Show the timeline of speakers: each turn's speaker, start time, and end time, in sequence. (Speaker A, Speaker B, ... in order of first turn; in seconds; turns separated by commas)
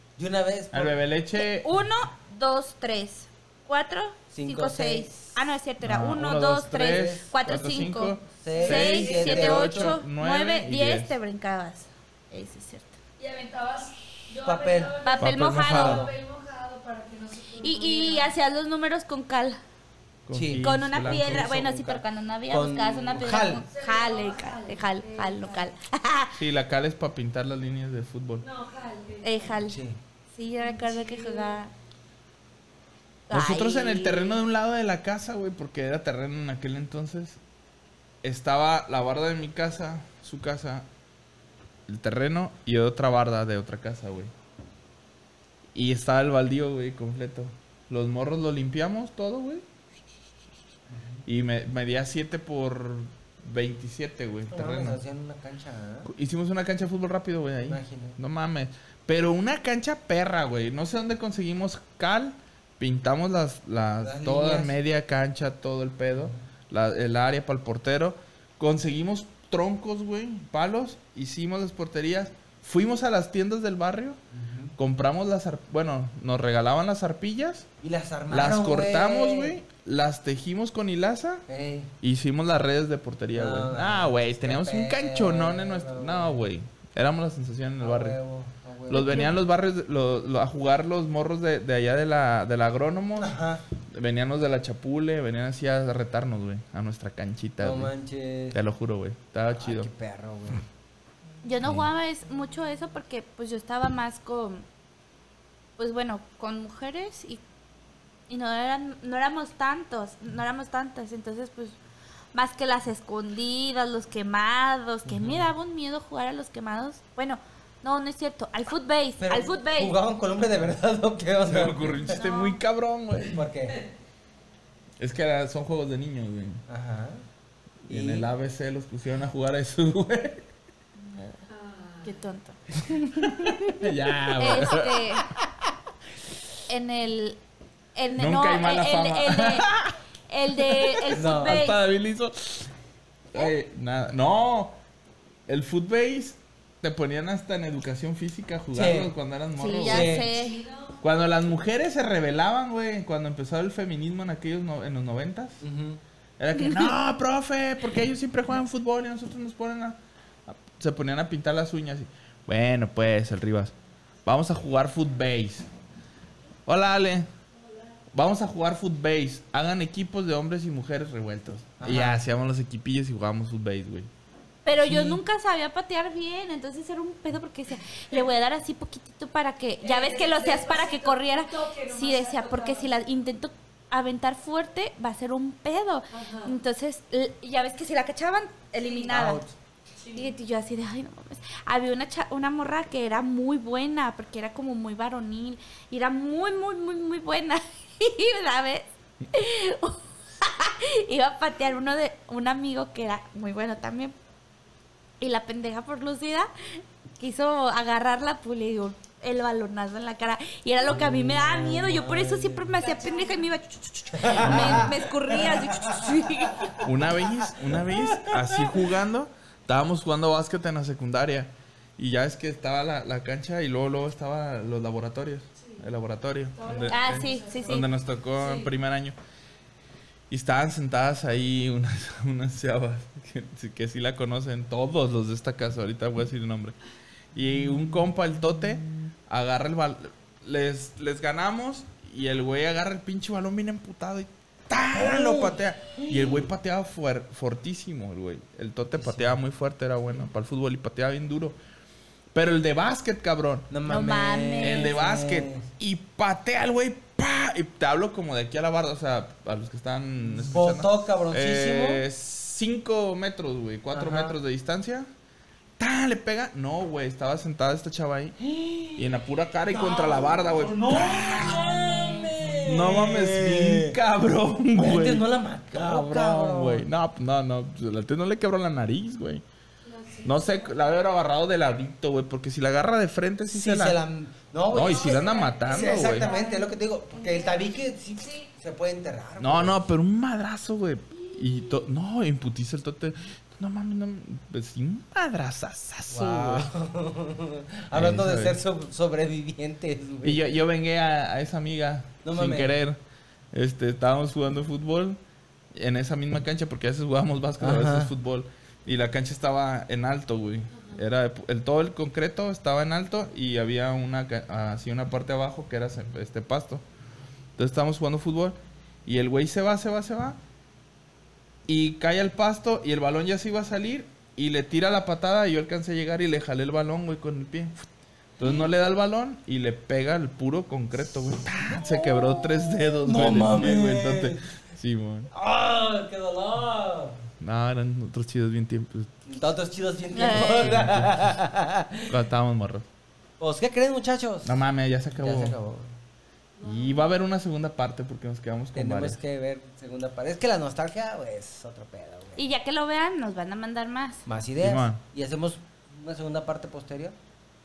Speaker A: 0.2-0.9, Speaker B: 0.7-1.7, Speaker C: 1.4-13.0, Speaker A: 4.3-5.3, Speaker B: 5.8-11.2, Speaker A: 6.8-7.2, Speaker A: 8.4-9.9, Speaker D: 8.5-9.3, Speaker D: 13.2-18.3, Speaker A: 14.4-15.0, Speaker C: 15.0-16.0, Speaker B: 15.2-16.1, Speaker A: 15.7-16.1, Speaker C: 17.6-19.6, Speaker B: 20.2-21.5, Speaker A: 20.3-23.6, Speaker C: 20.6-26.4, Speaker D: 23.7-25.7, Speaker B: 26.3-28.4, Speaker D: 28.4-29.5, Speaker C: 29.2-29.8, Speaker A: 29.6-30.0, Speaker C: 30.3-31.7, Speaker D: 30.6-31.6, Speaker C: 33.3-34.4, Speaker B: 33.3-37.4, Speaker B: 38.2-40.9, Speaker B: 41.9-44.3, Speaker B: 45.7-49.6, Speaker A: 50.9-51.2, Speaker B: 51.2-55.0, Speaker A: 54.5-56.1, Speaker B: 56.1-74.2, Speaker A: 57.6-58.2, Speaker A: 64.0-64.7, Speaker A: 74.3-74.7, Speaker B: 74.8-77.7, Speaker A: 77.8-79.5, Speaker B: 78.3-81.5, Speaker A: 81.5-81.9, Speaker B: 82.0-88.2, Speaker A: 83.3-86.4, Speaker A: 87.8-89.3, Speaker B: 88.9-93.3, Speaker C: 88.9-89.3, Speaker A: 93.2-93.6, Speaker B: 93.8-97.9, Speaker A: 97.6-98.6, Speaker B: 98.5-99.9, Speaker A: 99.5-100.6, Speaker C: 101.4-104.6, Speaker C: 105.8-107.4, Speaker C: 108.3-111.8, Speaker C: 112.3-119.9, Speaker A: 119.2-122.0, Speaker B: 121.4-123.5, Speaker C: 122.1-122.6, Speaker A: 123.3-123.8, Speaker B: 125.0-126.6, Speaker A: 126.7-127.2, Speaker A: 127.9-128.3, Speaker B: 127.9-130.4, Speaker C: 131.0-131.4, Speaker D: 131.5-132.1, Speaker C: 132.0-132.5, Speaker B: 132.8-135.0, Speaker C: 134.4-135.3, Speaker C: 136.7-137.4, Speaker C: 137.9-139.7, Speaker B: 138.2-140.0, Speaker C: 140.3-141.8, Speaker B: 140.6-142.7, Speaker A: 141.1-141.6, Speaker B: 143.3-144.8, Speaker B: 145.5-150.2, Speaker A: 148.7-149.1, Speaker C: 149.6-150.6, Speaker A: 149.8-150.3, Speaker D: 150.2-151.0, Speaker B: 151.0-155.6, Speaker A: 155.6-156.0, Speaker B: 156.4-163.7, Speaker B: 164.2-165.7, Speaker B: 166.7-167.3, Speaker B: 168.1-174.1, Speaker A: 171.8-172.2, Speaker C: 174.6-189.4, Speaker A: 174.8-175.2, Speaker D: 179.8-182.9, Speaker D: 186.1-186.6, Speaker D: 188.7-189.1, Speaker A: 189.1-189.5, Speaker D: 190.0-190.3, Speaker C: 190.1-204.1, Speaker C: 205.2-206.5, Speaker C: 207.2-216.7, Speaker A: 210.8-212.7, Speaker D: 212.8-213.4, Speaker A: 214.1-216.1, Speaker B: 216.8-229.2, Speaker A: 217.4-218.8, Speaker D: 225.6-225.9, Speaker D: 226.5-228.7, Speaker C: 226.9-227.8, Speaker B: 230.3-236.7, Speaker B: 237.3-251.6, Speaker A: 244.9-246.5, Speaker A: 248.9-249.3, Speaker B: 252.3-253.7, Speaker A: 253.7-255.7, Speaker C: 253.8-255.0, Speaker B: 254.6-265.1, Speaker A: 260.4-262.0, Speaker A: 263.9-264.4, Speaker B: 265.8-268.4, Speaker A: 268.4-269.1, Speaker B: 268.9-272.1, Speaker A: 269.7-273.9, Speaker B: 272.6-279.4, Speaker A: 274.8-276.9, Speaker D: 279.8-280.8, Speaker B: 280.2-284.0, Speaker A: 283.5-289.8, Speaker B: 284.7-286.3, Speaker D: 284.7-288.5, Speaker B: 289.4-296.7, Speaker D: 291.2-291.8, Speaker A: 296.1-300.4, Speaker B: 297.9-298.6, Speaker B: 300.2-303.0, Speaker A: 302.2-302.7, Speaker B: 303.5-305.2, Speaker B: 305.7-316.8, Speaker A: 307.6-308.1, Speaker D: 310.7-311.0, Speaker B: 317.6-320.4, Speaker B: 321.7-327.9, Speaker B: 328.4-335.3, Speaker A: 331.7-334.4, Speaker A: 335.3-337.1, Speaker B: 337.4-339.2, Speaker A: 339.3-342.1, Speaker C: 340.1-340.8, Speaker B: 340.6-341.2, Speaker B: 342.1-342.9, Speaker A: 343.4-344.6, Speaker B: 344.4-345.6, Speaker A: 345.1-345.9, Speaker D: 346.6-347.0, Speaker B: 346.6-349.2, Speaker A: 348.7-352.4, Speaker C: 352.4-354.2, Speaker A: 354.2-357.1, Speaker B: 354.6-355.0